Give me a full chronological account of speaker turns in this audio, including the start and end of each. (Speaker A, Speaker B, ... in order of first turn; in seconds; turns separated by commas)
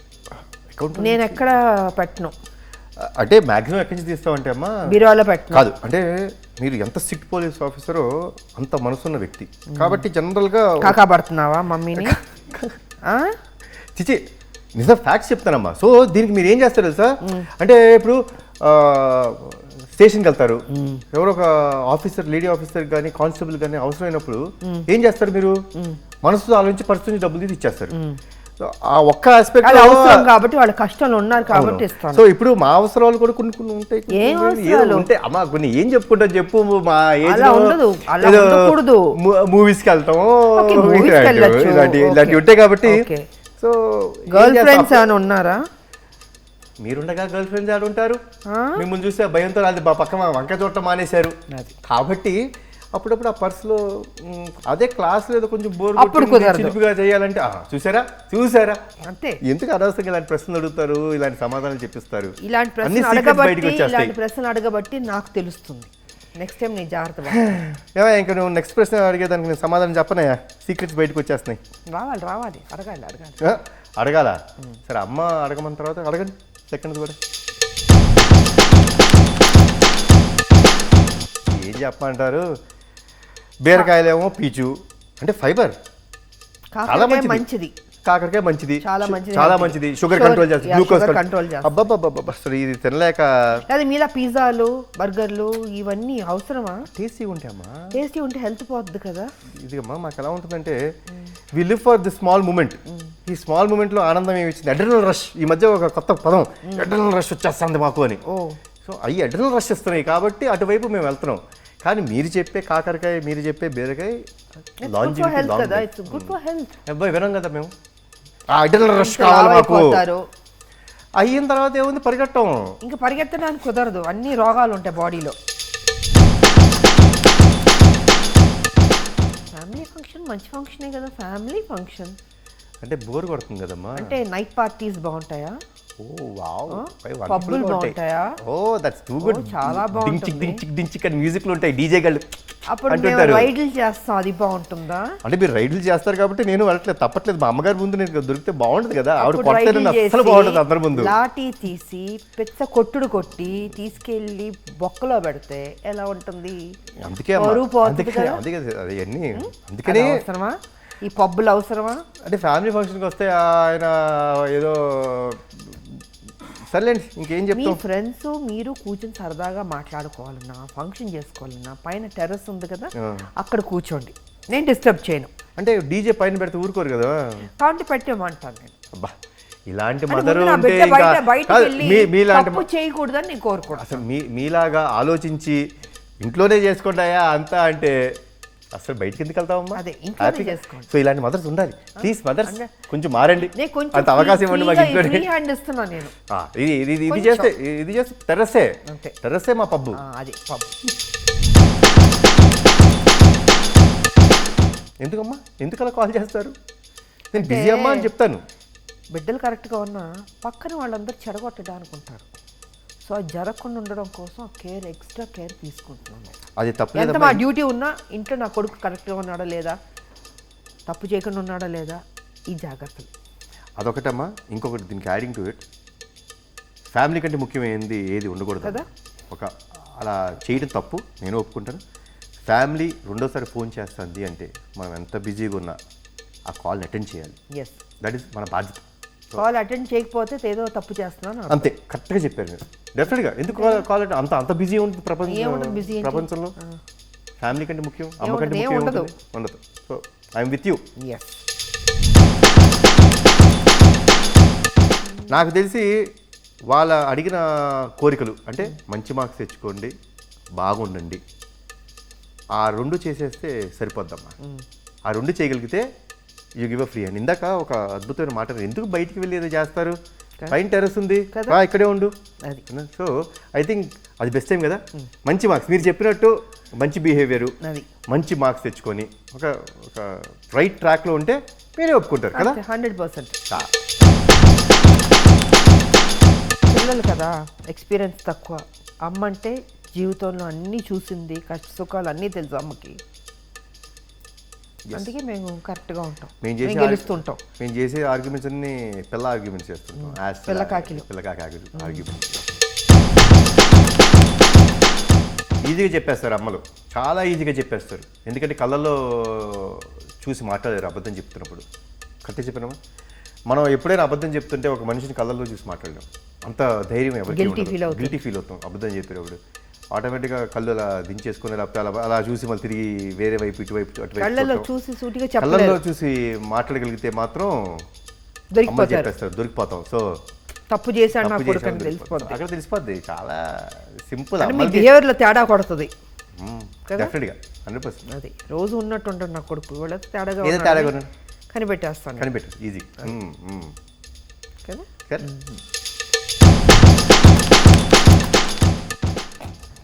Speaker A: 0.7-1.4, Speaker B: 0.9-2.3, Speaker A: 3.0-4.8, Speaker B: 4.9-5.6, Speaker A: 5.5-11.0, Speaker B: 9.7-10.0, Speaker B: 10.8-12.2, Speaker A: 11.9-12.8, Speaker A: 13.9-14.2, Speaker A: 14.8-20.6, Speaker B: 20.7-21.0, Speaker A: 21.1-25.6, Speaker A: 26.2-27.9, Speaker A: 28.6-30.3, Speaker B: 29.6-32.2, Speaker A: 31.5-43.0, Speaker B: 34.1-35.1, Speaker B: 37.2-39.1, Speaker B: 40.5-43.2, Speaker A: 43.6-45.0, Speaker B: 44.3-45.6, Speaker A: 46.8-48.2, Speaker B: 48.5-48.8, Speaker A: 48.8-52.4, Speaker A: 52.9-58.8, Speaker B: 56.0-56.7, Speaker B: 59.0-59.4, Speaker A: 59.5-64.1, Speaker B: 62.4-67.6, Speaker A: 67.3-71.6, Speaker B: 71.9-73.6, Speaker A: 73.4-77.2, Speaker A: 81.5-82.5, Speaker A: 83.6-85.7, Speaker B: 86.8-87.7, Speaker A: 86.8-87.4, Speaker A: 88.0-93.6, Speaker B: 88.8-91.9, Speaker B: 93.7-96.8, Speaker A: 96.9-97.9, Speaker B: 97.9-99.3, Speaker A: 99.6-100.8, Speaker A: 101.5-108.2, Speaker B: 108.3-108.5, Speaker A: 108.8-114.2, Speaker B: 114.8-116.8, Speaker A: 114.8-116.3, Speaker A: 116.9-117.7, Speaker A: 118.5-120.0, Speaker B: 118.8-120.2, Speaker A: 121.2-122.6, Speaker B: 122.8-125.3, Speaker B: 129.5-132.2, Speaker A: 132.8-134.2, Speaker B: 133.9-135.6, Speaker A: 136.0-142.2, Speaker B: 136.7-138.3, Speaker B: 139.2-140.6, Speaker B: 142.7-145.1, Speaker A: 142.9-143.5, Speaker A: 145.2-151.1, Speaker B: 149.2-156.6, Speaker A: 157.0-160.2, Speaker B: 157.3-158.4, Speaker B: 159.3-162.0, Speaker A: 162.2-167.8, Speaker B: 167.5-175.3, Speaker A: 173.0-173.3, Speaker A: 175.6-177.5, Speaker B: 177.6-178.7, Speaker A: 179.7-182.7, Speaker B: 180.1-184.0, Speaker A: 183.8-185.6, Speaker A: 186.2-187.9, Speaker A: 188.8-195.2, Speaker B: 189.7-190.9, Speaker B: 192.0-192.7, Speaker B: 193.5-196.1, Speaker A: 196.3-200.0, Speaker B: 197.1-197.5, Speaker B: 198.9-199.1, Speaker B: 199.9-200.8, Speaker A: 205.0-206.5, Speaker A: 207.3-208.4, Speaker B: 207.3-208.1, Speaker B: 209.1-212.3, Speaker B: 213.0-216.3, Speaker A: 216.6-217.4, Speaker B: 216.9-219.8, Speaker B: 220.9-223.1, Speaker A: 223.8-225.6, Speaker A: 226.9-231.8, Speaker B: 228.6-228.9, Speaker A: 232.4-235.8, Speaker A: 236.5-237.4, Speaker A: 238.0-239.4, Speaker B: 239.3-241.7, Speaker A: 241.5-246.5, Speaker B: 243.5-243.8, Speaker B: 245.2-246.8, Speaker A: 247.4-250.8, Speaker B: 248.2-249.1, Speaker B: 251.0-251.4, Speaker B: 254.8-255.3, Speaker A: 255.3-256.1, Speaker A: 256.7-259.9, Speaker A: 260.6-261.2, Speaker A: 262.6-264.3, Speaker A: 265.1-265.9, Speaker A: 266.6-270.0, Speaker A: 270.5-272.1, Speaker B: 271.3-271.6, Speaker A: 272.7-277.5, Speaker B: 277.6-277.9, Speaker A: 278.1-282.6, Speaker B: 282.3-283.4, Speaker B: 286.7-293.0, Speaker A: 294.8-295.1, Speaker B: 294.9-297.4, Speaker A: 296.4-302.6, Speaker B: 300.0-301.1, Speaker B: 301.7-302.1, Speaker A: 305.6-311.6, Speaker A: 312.2-312.8, Speaker A: 313.5-319.4, Speaker B: 317.3-318.1, Speaker A: 319.9-324.7, Speaker B: 324.2-325.8, Speaker A: 325.4-327.8, Speaker B: 328.5-329.1, Speaker A: 328.7-330.2, Speaker B: 330.7-332.4, Speaker A: 331.2-334.9, Speaker B: 334.4-335.9, Speaker A: 336.4-338.0, Speaker B: 336.9-337.1, Speaker B: 338.1-340.9, Speaker A: 340.4-341.1, Speaker B: 341.5-342.3, Speaker A: 342.2-343.7, Speaker B: 344.6-345.6